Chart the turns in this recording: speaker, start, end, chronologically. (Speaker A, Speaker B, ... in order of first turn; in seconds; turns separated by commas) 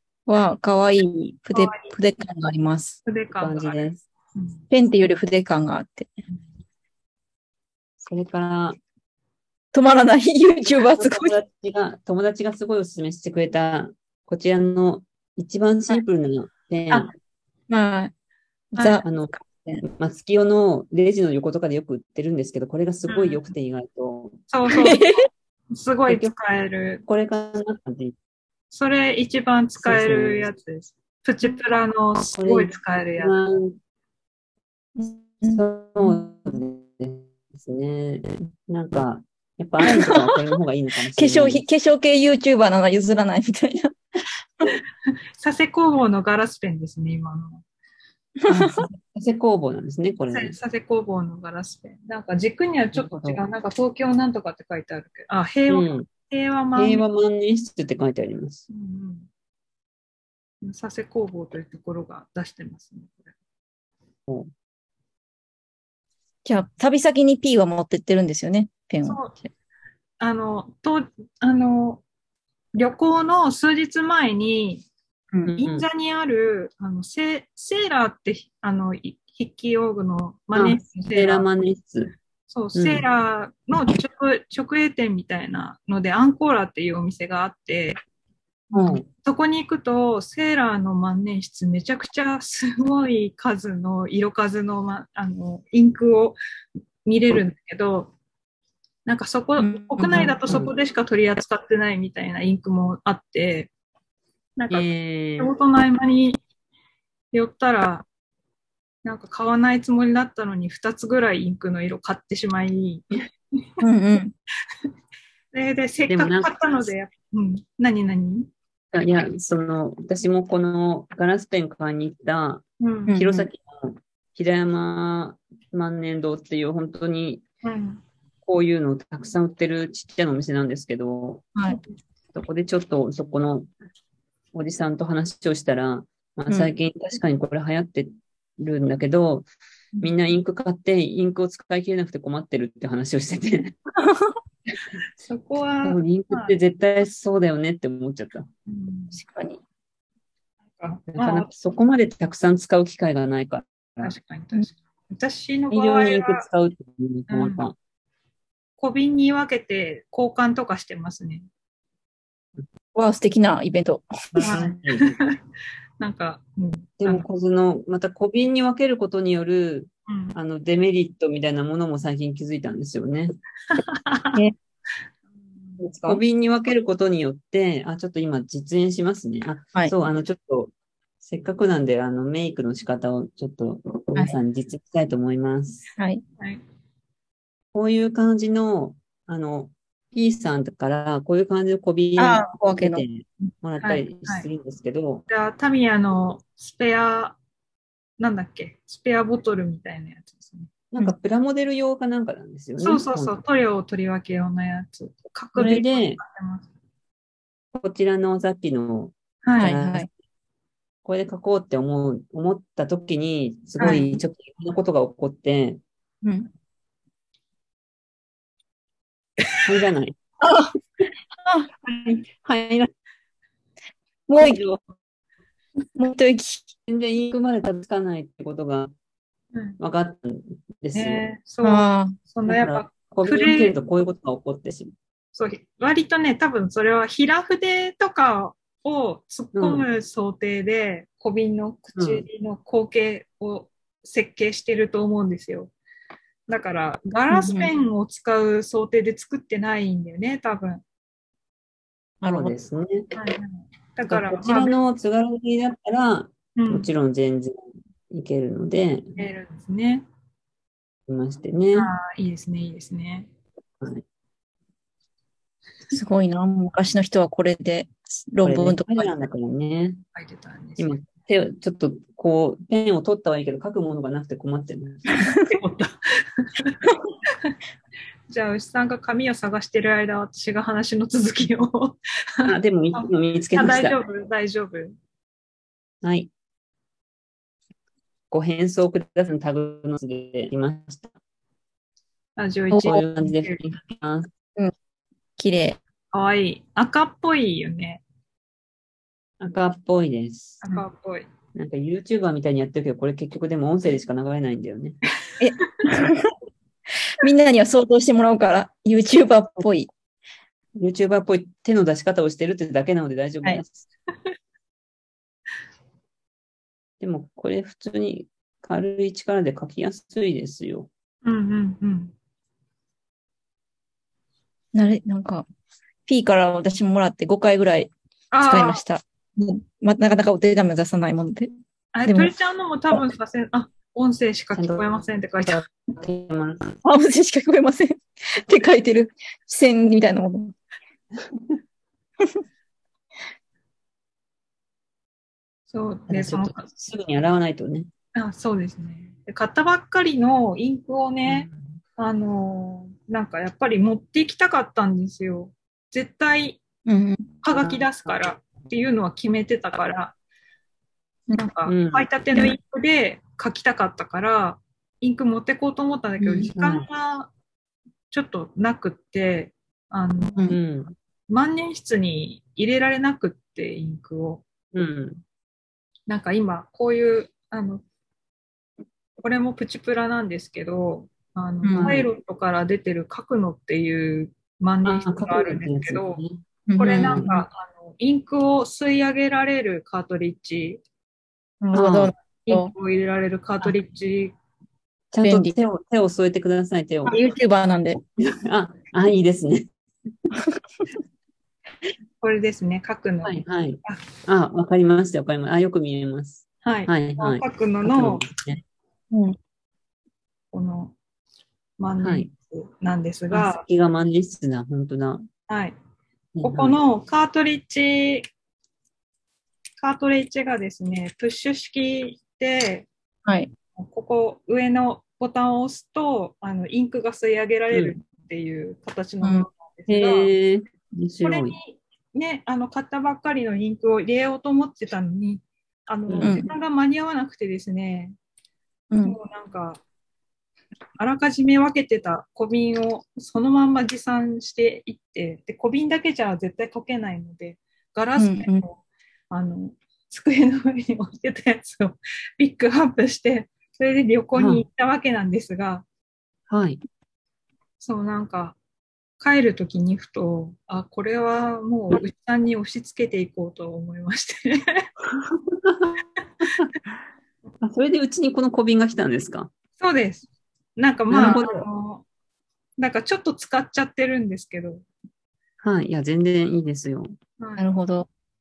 Speaker A: 0.3-3.0, Speaker B: 1.5-1.9, Speaker B: 3.0-3.8, Speaker C: 3.4-4.0, Speaker B: 4.3-4.6, Speaker A: 4.7-6.1, Speaker C: 8.0-8.8, Speaker A: 9.7-11.3, Speaker C: 10.9-17.1, Speaker A: 17.7-18.1, Speaker A: 18.7-19.0, Speaker B: 18.8-19.0, Speaker C: 19.0-24.4, Speaker B: 23.1-23.4, Speaker B: 24.5-25.2, Speaker A: 24.8-25.3, Speaker B: 25.7-27.0, Speaker C: 26.1-26.3, Speaker C: 27.1-28.1, Speaker B: 28.7-33.3, Speaker C: 29.8-30.5, Speaker C: 32.4-33.8, Speaker A: 35.0-36.2, Speaker C: 35.4-41.6, Speaker A: 39.8-40.4, Speaker A: 41.1-43.9, Speaker B: 45.4-47.6, Speaker A: 48.4-48.9, Speaker C: 48.5-50.6, Speaker B: 50.3-57.0, Speaker C: 52.9-53.4, Speaker C: 55.7-56.1, Speaker C: 56.7-58.7, Speaker B: 58.7-59.3, Speaker B: 60.6-63.2, Speaker A: 66.4-69.3, Speaker B: 69.0-69.3, Speaker B: 70.2-72.0, Speaker B: 72.7-74.8, Speaker C: 75.5-75.8, Speaker B: 75.6-81.5, Speaker C: 80.5-82.1, Speaker B: 82.5-88.0, Speaker C: 82.7-83.0, Speaker C: 88.7-89.0, Speaker B: 89.1-96.4, Speaker B: 97.0-98.1, Speaker B: 99.0-103.7, Speaker A: 99.6-100.4, Speaker B: 104.6-106.4, Speaker C: 104.7-105.5, Speaker B: 107.3-108.0, Speaker B: 109.0-113.0, Speaker A: 113.8-114.3, Speaker B: 115.5-118.5, Speaker C: 116.1-116.6, Speaker C: 118.9-127.4, Speaker B: 122.8-123.2, Speaker A: 123.1-123.5, Speaker B: 127.6-128.0, Speaker C: 128.4-131.5, Speaker C: 132.3-133.7, Speaker C: 134.5-139.5, Speaker A: 136.5-136.7, Speaker C: 140.0-143.8, Speaker A: 144.0-144.3, Speaker B: 145.2-146.5, Speaker C: 145.8-148.5, Speaker B: 148.7-149.2, Speaker A: 149.1-149.6, Speaker B: 150.8-151.5, Speaker C: 151.1-154.1, Speaker B: 154.0-156.4, Speaker C: 155.7-157.7, Speaker B: 157.3-157.6, Speaker B: 158.8-161.5, Speaker A: 162.9-164.6, Speaker C: 164.3-165.2, Speaker B: 164.4-165.4, Speaker B: 166.0-167.2, Speaker C: 167.0-173.4, Speaker B: 170.1-170.3, Speaker B: 173.7-174.4, Speaker A: 175.9-176.2, Speaker C: 176.0-185.9, Speaker C: 187.7-195.2, Speaker A: 192.2-193.0, Speaker B: 193.8-194.5, Speaker B: 195.3-197.4, Speaker B: 198.2-200.7, Speaker C: 200.9-203.4, Speaker B: 202.8-206.7, Speaker C: 205.5-206.2, Speaker C: 207.7-210.1, Speaker B: 209.4-209.7, Speaker A: 209.6-210.1, Speaker C: 211.0-215.8, Speaker B: 213.8-214.1, Speaker A: 216.2-216.5, Speaker C: 219.6-220.2, Speaker A: 220.4-220.7, Speaker A: 221.4-221.7, Speaker C: 221.9-222.9, Speaker A: 224.3-224.6, Speaker C: 224.3-224.8, Speaker A: 225.9-226.7, Speaker C: 226.9-228.9, Speaker B: 229.5-229.8, Speaker C: 229.8-231.2, Speaker B: 230.9-233.7, Speaker A: 231.6-232.2, Speaker C: 232.4-234.9, Speaker B: 235.3-245.7, Speaker C: 239.5-239.8, Speaker C: 241.9-242.2, Speaker B: 246.5-250.8, Speaker A: 247.3-247.7, Speaker A: 252.2-252.5, Speaker C: 252.2-253.1, Speaker B: 253.1-254.7, Speaker C: 254.1-257.6, Speaker B: 256.6-256.9, Speaker C: 258.1-259.1, Speaker B: 259.1-260.0, Speaker C: 261.1-261.9, Speaker B: 261.7-263.3, Speaker A: 265.9-269.1, Speaker C: 268.4-270.0, Speaker B: 270.1-271.0, Speaker C: 270.8-275.3, Speaker B: 275.4-276.9, Speaker B: 278.3-284.9, Speaker C: 282.4-284.0, Speaker C: 286.0-286.3, Speaker C: 288.3-291.1, Speaker B: 292.4-293.6, Speaker A: 292.7-293.0, Speaker C: 292.8-294.3, Speaker A: 295.4-295.8, Speaker B: 296.1-298.0, Speaker C: 299.4-300.7, Speaker B: 300.6-301.3, Speaker C: 301.5-305.0, Speaker A: 305.4-306.3, Speaker B: 305.6-305.9, Speaker A: 307.2-309.9, Speaker C: 310.8-313.9, Speaker C: 317.0-320.9, Speaker B: 321.2-322.1, Speaker A: 324.7-325.4, Speaker A: 326.1-327.9, Speaker B: 328.3-328.8, Speaker A: 328.4-331.5, Speaker B: 331.9-335.7, Speaker A: 332.1-332.3, Speaker C: 334.6-336.8, Speaker A: 336.8-340.5, Speaker B: 345.7-346.6, Speaker C: 346.1-347.9, Speaker B: 348.1-356.6, Speaker C: 351.3-351.8, Speaker A: 356.9-357.3, Speaker B: 357.4-360.1, Speaker C: 357.5-357.9, Speaker B: 361.3-367.3, Speaker C: 361.6-362.1, Speaker A: 366.2-366.5, Speaker C: 366.5-366.9, Speaker B: 368.1-370.5, Speaker A: 370.3-370.6, Speaker C: 370.5-370.9, Speaker B: 371.3-374.4, Speaker C: 374.7-375.2, Speaker B: 376.1-377.8, Speaker B: 379.2-386.2, Speaker A: 381.6-381.9, Speaker C: 381.7-382.1, Speaker C: 384.8-386.4, Speaker A: 386.7-387.4, Speaker B: 386.8-390.8, Speaker C: 386.9-387.3, Speaker A: 391.6-392.7, Speaker C: 391.7-392.1, Speaker B: 392.4-394.3, Speaker C: 395.1-397.2, Speaker A: 395.2-395.6, Speaker A: 397.1-398.0, Speaker C: 398.2-399.7, Speaker B: 402.2-404.0, Speaker C: 403.2-408.6, Speaker B: 406.6-408.2, Speaker A: 409.1-409.4, Speaker B: 410.5-410.9, Speaker B: 411.8-413.6, Speaker C: 412.0-412.3, Speaker C: 413.3-415.2, Speaker B: 415.5-415.7, Speaker C: 416.4-416.8, Speaker B: 416.4-418.3, Speaker B: 419.8-422.9, Speaker A: 423.2-423.5, Speaker B: 423.8-430.3, Speaker A: 429.2-429.5, Speaker C: 429.9-431.6, Speaker B: 431.2-438.1, Speaker C: 436.1-436.4, Speaker A: 436.2-436.5, Speaker A: 438.9-439.2, Speaker B: 439.0-439.8, Speaker B: 441.0-455.8, Speaker A: 448.2-448.6, Speaker C: 454.3-454.6, Speaker C: 456.5-456.8, Speaker B: 457.8-458.6, Speaker B: 459.2-464.9, Speaker C: 465.1-466.7, Speaker C: 467.6-469.5, Speaker B: 469.8-472.1, Speaker C: 471.1-471.6, Speaker B: 472.8-474.8, Speaker C: 475.6-477.1, Speaker B: 477.4-477.7, Speaker A: 477.6-478.1